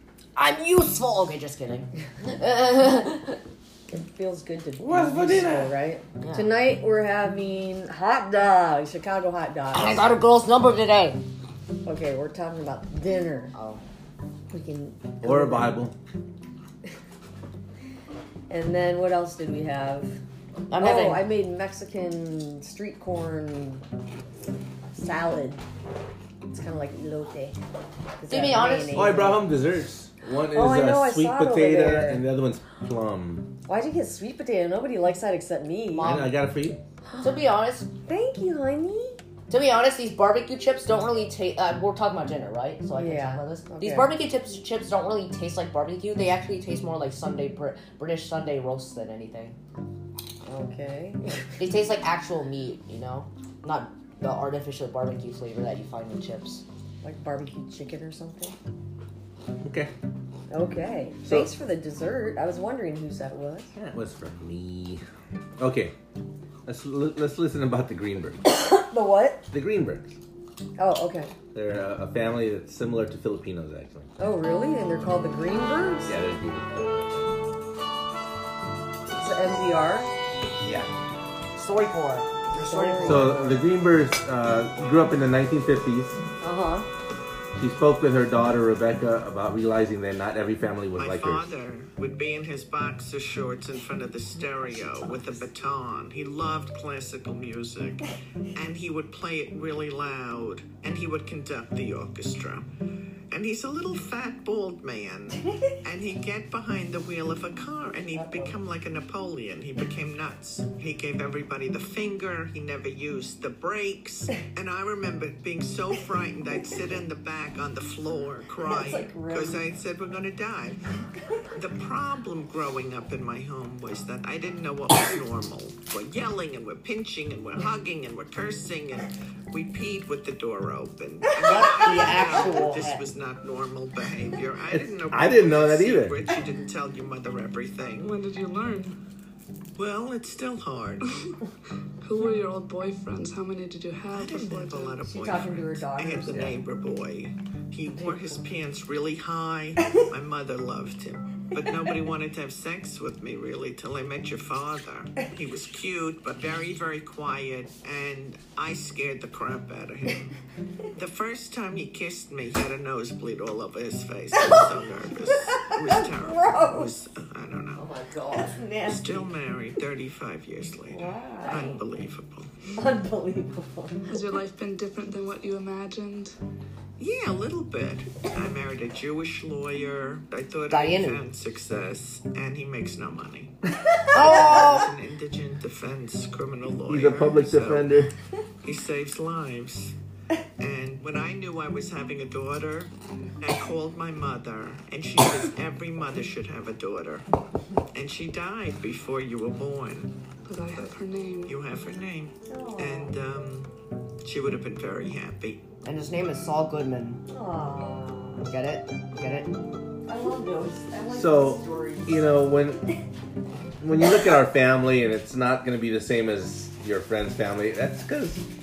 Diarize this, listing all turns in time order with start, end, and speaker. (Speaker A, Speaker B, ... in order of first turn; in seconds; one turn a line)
Speaker A: 0.3-3.3
Speaker B: 3.9-10.1
Speaker C: 4.8-5.7
Speaker A: 6.2-6.5
Speaker A: 9.7-11.2
Speaker B: 11.8-13.5
Speaker A: 13.5-13.8
Speaker B: 14.5-15.8
Speaker C: 15.2-15.9
Speaker B: 18.5-20.2
Speaker A: 20.7-21.3
Speaker B: 20.8-23.8
Speaker B: 24.9-25.6
Speaker B: 26.5-27.6
Speaker B: 28.2-29.4
Speaker A: 28.3-29.1
Speaker C: 28.9-33.5
Speaker B: 30.5-32.3
Speaker B: 33.7-36.2
Speaker A: 35.9-36.4
Speaker C: 36.0-36.8
Speaker A: 37.2-37.9
Speaker B: 38.0-39.2
Speaker A: 39.5-49.5
Speaker B: 42.9-44.2
Speaker B: 50.5-51.6
Speaker A: 51.6-56.6
Speaker B: 57.0-58.5
Speaker C: 59.6-59.9
Speaker B: 60.5-63.7
Speaker C: 61.2-61.5
Speaker C: 63.8-65.0
Speaker C: 65.6-65.9
Speaker C: 66.7-68.4
Speaker B: 68.5-69.5
Speaker C: 69.5-70.2
Speaker B: 70.8-71.3
Speaker C: 71.5-74.1
Speaker B: 74.2-76.1
Speaker C: 76.1-77.2
Speaker B: 79.1-80.1
Speaker C: 80.6-80.9
Speaker A: 81.5-83.4
Speaker B: 82.5-83.7
Speaker C: 83.0-86.2
Speaker B: 86.4-86.9
Speaker C: 87.5-91.5
Speaker D: 91.0-102.7
Speaker D: 103.3-120.9
Speaker B: 108.1-108.6
Speaker B: 118.6-119.7
Speaker D: 121.5-138.1
Speaker B: 131.4-133.0
Speaker A: 131.4-132.9
Speaker C: 135.1-136.2
Speaker E: 138.0-139.0
Speaker D: 139.8-141.4
Speaker E: 142.0-145.2
Speaker D: 144.1-160.3
Speaker B: 145.1-146.6
Speaker B: 148.1-148.3
Speaker D: 160.9-167.9
Speaker B: 165.5-166.9
Speaker B: 167.8-169.3
Speaker D: 168.9-172.5
Speaker B: 170.9-171.8
Speaker B: 172.8-174.1
Speaker E: 174.1-176.4
Speaker D: 177.0-183.5
Speaker A: 180.7-181.2
Speaker A: 184.1-184.9
Speaker D: 184.1-187.9
Speaker C: 186.9-188.1
Speaker D: 188.6-189.9
Speaker D: 190.6-197.2
Speaker D: 197.9-200.1
Speaker E: 200.4-201.6
Speaker D: 201.4-203.7
Speaker B: 202.5-203.2
Speaker D: 204.2-205.6
Speaker A: 205.8-207.2
Speaker B: 207.3-208.5
Speaker A: 208.4-209.5
Speaker B: 210.1-212.3
Speaker C: 211.1-212.8
Speaker C: 213.8-218.5